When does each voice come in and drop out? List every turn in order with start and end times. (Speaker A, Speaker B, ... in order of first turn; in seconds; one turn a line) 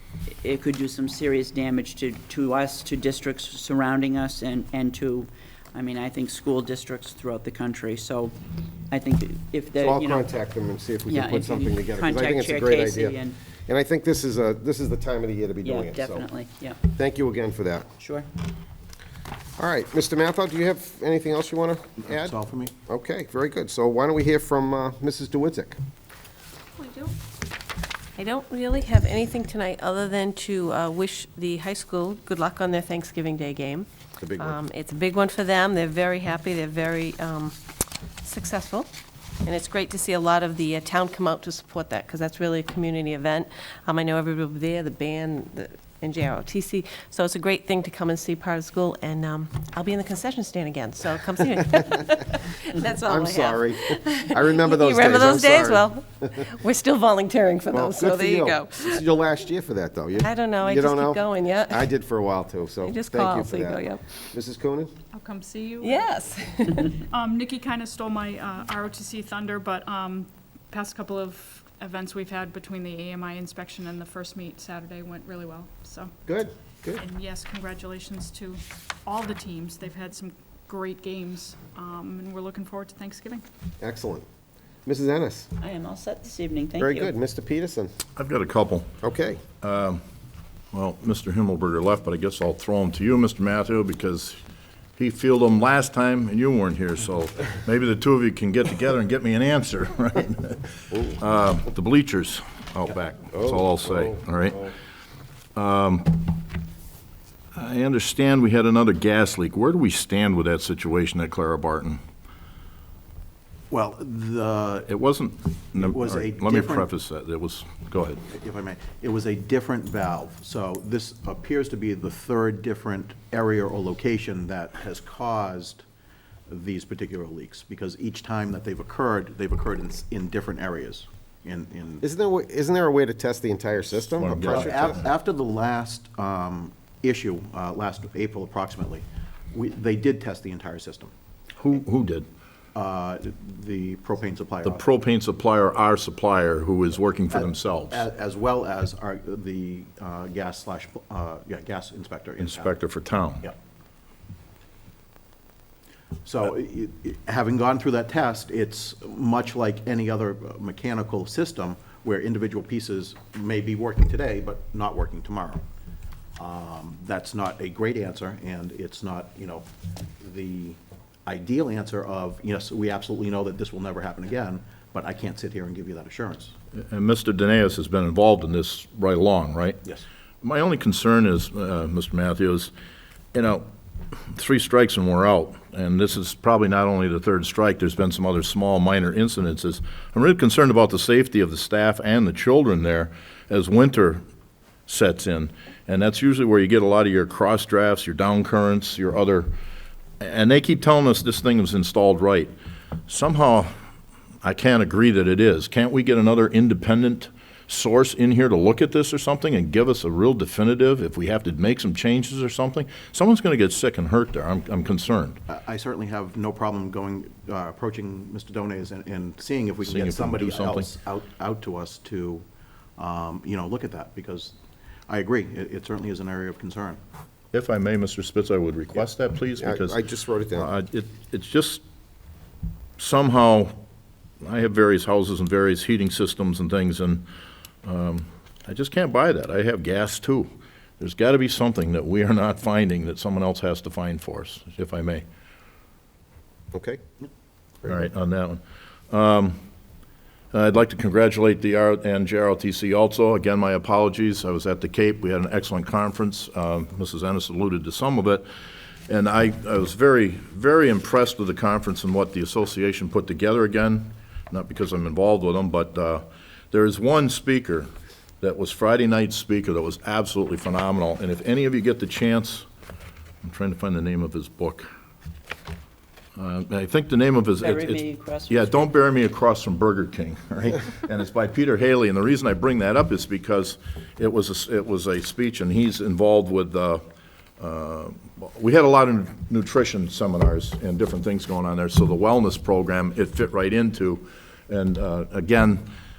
Speaker A: 0.4-8.3
Speaker A: 8.9-10.3
Speaker B: 9.8-16.2
Speaker A: 11.1-13.4
Speaker A: 15.6-16.8
Speaker B: 16.9-17.9
Speaker A: 18.0-18.3
Speaker B: 19.6-22.3
Speaker C: 22.1-22.7
Speaker B: 22.9-25.8
Speaker D: 28.2-33.9
Speaker B: 34.2-34.6
Speaker D: 34.4-37.5
Speaker D: 38.2-38.9
Speaker D: 39.4-58.9
Speaker B: 53.0-56.4
Speaker B: 57.7-64.9
Speaker D: 60.2-61.8
Speaker D: 62.9-64.1
Speaker E: 65.1-66.2
Speaker D: 65.8-66.8
Speaker E: 66.9-76.1
Speaker B: 76.3-77.0
Speaker E: 77.0-83.4
Speaker B: 83.8-84.2
Speaker B: 84.8-85.5
Speaker A: 85.6-87.1
Speaker B: 86.8-87.9
Speaker F: 88.2-88.9
Speaker B: 89.0-89.4
Speaker F: 89.6-90.0
Speaker F: 90.7-94.4
Speaker F: 95.0-104.7
Speaker B: 103.3-104.1
Speaker F: 105.5-106.4
Speaker F: 107.5-112.0
Speaker C: 113.7-114.9
Speaker F: 114.9-118.2
Speaker C: 115.7-116.9
Speaker C: 118.2-125.8
Speaker C: 126.5-132.0
Speaker B: 132.0-135.0
Speaker F: 134.2-135.0
Speaker C: 134.5-141.1
Speaker F: 141.6-142.3
Speaker C: 142.7-144.8
Speaker F: 144.6-148.1
Speaker C: 147.3-152.7
Speaker F: 152.4-153.5
Speaker C: 156.2-165.6
Speaker C: 166.4-169.7
Speaker C: 170.2-176.5
Speaker F: 176.8-179.8
Speaker F: 180.4-182.7
Speaker F: 183.3-194.2
Speaker F: 194.9-199.5
Speaker F: 200.2-202.5
Speaker F: 203.1-203.7
Speaker F: 204.4-215.4
Speaker C: 215.5-222.4
Speaker F: 219.8-220.9
Speaker C: 223.0-224.5
Speaker C: 225.1-227.0
Speaker F: 227.5-230.0
Speaker B: 229.6-230.7
Speaker F: 230.5-231.8
Speaker F: 233.0-233.7
Speaker F: 234.4-237.2
Speaker F: 237.8-245.2
Speaker B: 246.7-247.0
Speaker F: 247.8-249.6
Speaker F: 250.5-258.4
Speaker F: 259.1-272.6
Speaker F: 273.4-274.9
Speaker F: 276.4-287.0
Speaker A: 277.6-278.9
Speaker F: 287.6-295.8